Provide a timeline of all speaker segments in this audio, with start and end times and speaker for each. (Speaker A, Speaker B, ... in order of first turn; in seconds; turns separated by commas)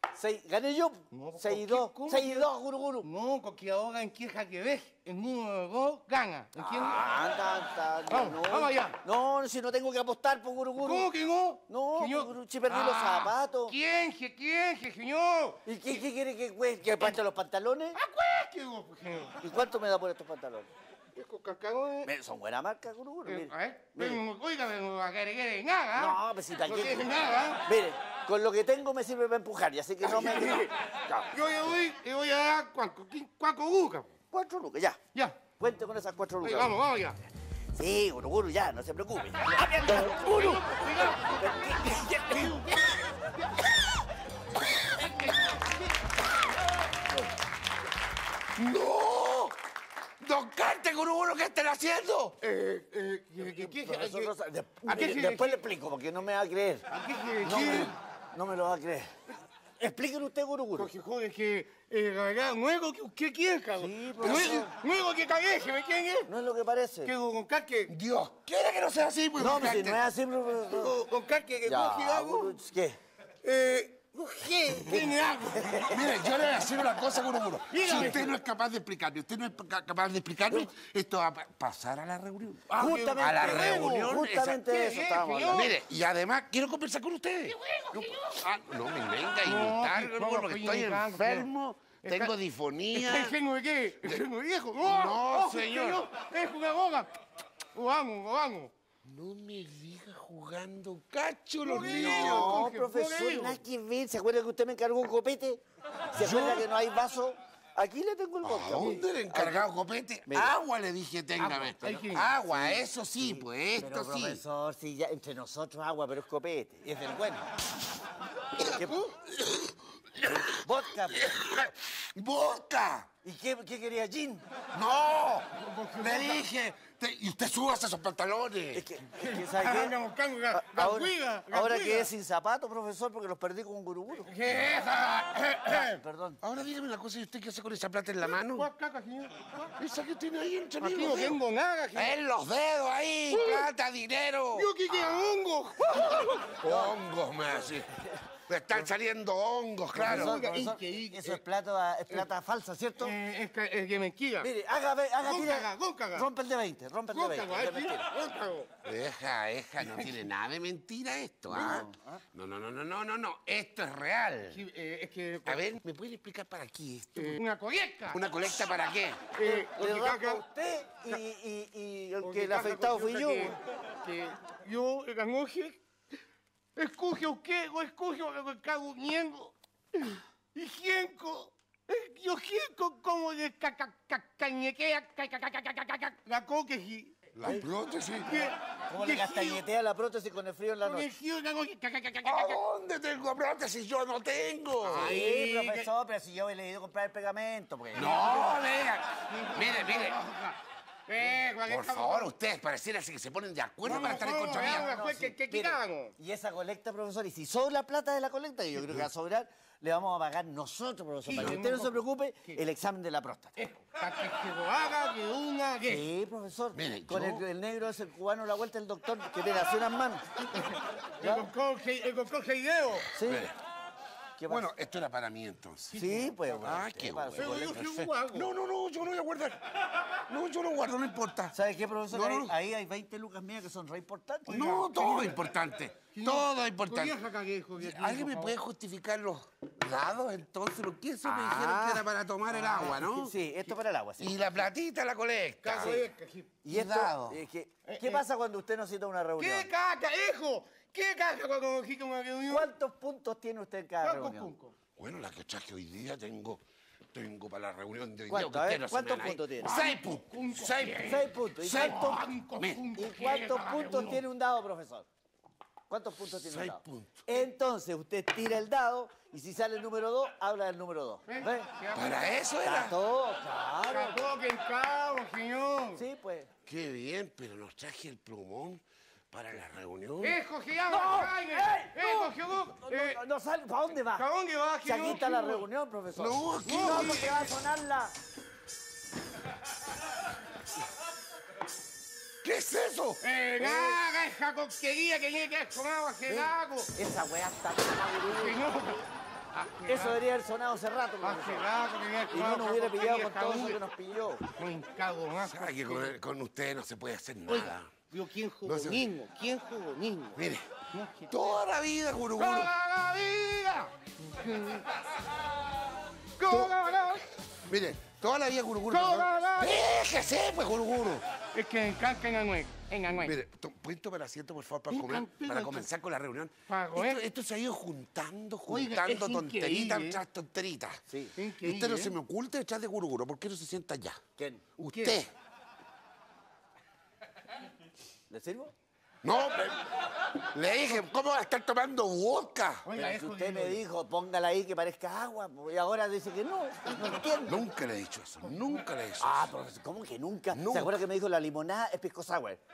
Speaker A: 0.1-3.1, Speaker B: 1.1-2.5, Speaker B: 3.0-7.0, Speaker A: 6.6-11.1, Speaker B: 8.1-9.0, Speaker B: 10.8-15.6, Speaker A: 11.7-13.8, Speaker A: 15.7-18.0, Speaker B: 17.9-19.4, Speaker A: 19.4-20.7, Speaker B: 21.1-22.1, Speaker A: 22.0-24.2, Speaker B: 23.2-27.6, Speaker A: 25.9-27.1, Speaker A: 27.6-31.3, Speaker B: 30.0-30.7, Speaker B: 31.3-34.1, Speaker A: 34.3-35.0, Speaker A: 35.6-36.7, Speaker B: 36.4-37.2, Speaker A: 37.7-42.7, Speaker B: 39.8-43.0, Speaker B: 44.9-45.9, Speaker C: 48.6-49.5, Speaker C: 50.2-52.3, Speaker B: 52.4-54.3, Speaker A: 53.4-56.9, Speaker B: 54.8-55.6, Speaker B: 56.9-57.9, Speaker A: 57.4-59.1, Speaker A: 59.8-60.9, Speaker B: 60.8-66.3, Speaker A: 63.8-64.7, Speaker C: 64.2-64.6, Speaker A: 66.2-67.1, Speaker B: 67.0-67.9, Speaker C: 67.9-70.0, Speaker A: 69.4-71.0, Speaker B: 70.7-72.6, Speaker A: 71.6-73.0, Speaker B: 73.4-75.9, Speaker A: 74.9-76.0, Speaker C: 75.9-84.6, Speaker B: 77.7-78.3, Speaker B: 82.7-85.7, Speaker A: 82.8-85.7, Speaker C: 85.5-93.3, Speaker B: 87.5-88.4, Speaker B: 89.4-91.5, Speaker B: 92.0-92.3, Speaker B: 92.9-97.1, Speaker C: 94.8-96.0, Speaker B: 97.7-98.7, Speaker C: 99.0-102.6, Speaker B: 101.6-103.6, Speaker A: 101.8-105.6, Speaker A: 106.1-109.7, Speaker C: 106.2-106.7, Speaker C: 108.4-114.4, Speaker A: 110.2-110.5, Speaker B: 111.4-112.3, Speaker A: 112.4-117.5, Speaker A: 118.6-119.0, Speaker B: 118.6-118.9, Speaker C: 118.7-123.1, Speaker A: 120.6-121.3, Speaker A: 123.2-124.5, Speaker C: 124.7-128.8, Speaker B: 125.5-126.4, Speaker A: 128.7-130.0, Speaker B: 129.1-132.1, Speaker A: 130.5-134.3, Speaker B: 134.2-136.0, Speaker A: 135.7-136.4, Speaker C: 136.4-138.7, Speaker B: 138.3-139.7, Speaker C: 139.8-141.4, Speaker B: 140.8-142.1, Speaker C: 141.9-145.0, Speaker B: 143.3-143.6, Speaker B: 144.5-146.6, Speaker C: 146.6-147.9, Speaker A: 146.6-146.9, Speaker A: 147.5-148.2, Speaker C: 148.5-150.4, Speaker B: 149.9-151.4, Speaker A: 149.9-153.2, Speaker B: 153.0-154.5, Speaker A: 154.4-158.1, Speaker B: 155.2-156.3, Speaker B: 157.1-158.7, Speaker C: 158.8-164.6, Speaker A: 161.5-162.0, Speaker B: 164.5-165.6, Speaker C: 165.4-167.4, Speaker B: 167.2-168.2, Speaker C: 168.1-169.2, Speaker B: 169.3-170.4, Speaker A: 169.4-173.6, Speaker B: 172.2-175.8, Speaker B: 176.8-187.1, Speaker C: 187.3-188.4, Speaker B: 188.2-189.6, Speaker A: 188.9-191.1, Speaker B: 190.8-192.6, Speaker C: 192.2-195.2, Speaker B: 194.8-195.9, Speaker A: 194.9-198.5, Speaker C: 197.9-200.2, Speaker B: 198.0-198.6, Speaker B: 199.3-202.3, Speaker C: 201.6-205.0, Speaker B: 203.8-206.1, Speaker A: 204.6-213.5, Speaker B: 211.2-212.6, Speaker B: 213.6-216.1, Speaker A: 215.8-220.2, Speaker C: 216.7-217.4, Speaker B: 220.5-223.1, Speaker A: 223.1-223.5, Speaker C: 223.2-223.6, Speaker A: 224.4-224.7, Speaker C: 224.5-229.6, Speaker B: 225.9-226.3, Speaker A: 225.9-227.8, Speaker B: 227.3-228.5, Speaker C: 230.3-231.5, Speaker A: 231.5-234.8, Speaker C: 232.1-232.5, Speaker B: 234.5-235.4, Speaker C: 234.5-237.2, Speaker B: 236.1-238.6, Speaker C: 237.8-243.3, Speaker A: 241.2-244.7, Speaker C: 244.2-246.0, Speaker B: 245.6-246.6, Speaker A: 245.8-246.0, Speaker A: 246.6-249.7, Speaker C: 246.7-247.4, Speaker B: 247.8-248.2, Speaker B: 249.4-252.7, Speaker A: 252.5-254.5, Speaker B: 254.0-254.7, Speaker C: 255.0-256.6, Speaker C: 257.1-262.8, Speaker A: 258.3-259.8, Speaker B: 259.6-264.2, Speaker A: 261.0-262.2, Speaker A: 262.9-265.1, Speaker A: 265.9-271.7, Speaker C: 266.4-267.3, Speaker B: 271.3-272.2, Speaker C: 271.9-272.9, Speaker A: 272.6-274.3, Speaker B: 273.9-276.0, Speaker A: 275.9-276.5, Speaker C: 276.6-280.4, Speaker B: 280.2-283.2, Speaker A: 280.9-284.3, Speaker B: 284.1-285.7, Speaker A: 284.8-288.1, Speaker C: 286.2-287.3, Speaker B: 286.6-287.4, Speaker C: 292.4-293.2, Speaker B: 293.2-296.9, Speaker A: 296.9-298.6, Speaker B: 298.2-300.2, Speaker A: 299.9-301.7, Speaker B: 301.2-303.8, Speaker A: 302.3-304.4, Speaker B: 304.6-306.1, Speaker C: 305.4-307.9, Speaker B: 307.5-310.4, Speaker C: 308.6-309.0, Speaker C: 310.4-310.7, Speaker B: 310.9-311.6, Speaker C: 311.3-312.7, Speaker B: 312.4-314.8, Speaker B: 316.4-317.2, Speaker C: 317.7-321.2, Speaker B: 318.9-319.8, Speaker B: 321.5-323.4, Speaker C: 323.2-331.0, Speaker B: 324.9-325.9, Speaker B: 326.7-327.2, Speaker B: 328.7-330.2, Speaker A: 331.1-331.3, Speaker B: 331.4-332.1, Speaker C: 331.6-334.2, Speaker A: 334.4-334.7, Speaker C: 334.8-335.3, Speaker B: 334.9-335.2, Speaker A: 338.3-338.7, Speaker C: 339.2-339.8, Speaker C: 340.4-342.9, Speaker B: 342.8-343.8, Speaker A: 342.9-347.6, Speaker C: 347.4-349.4, Speaker A: 349.2-352.6, Speaker C: 350.5-350.9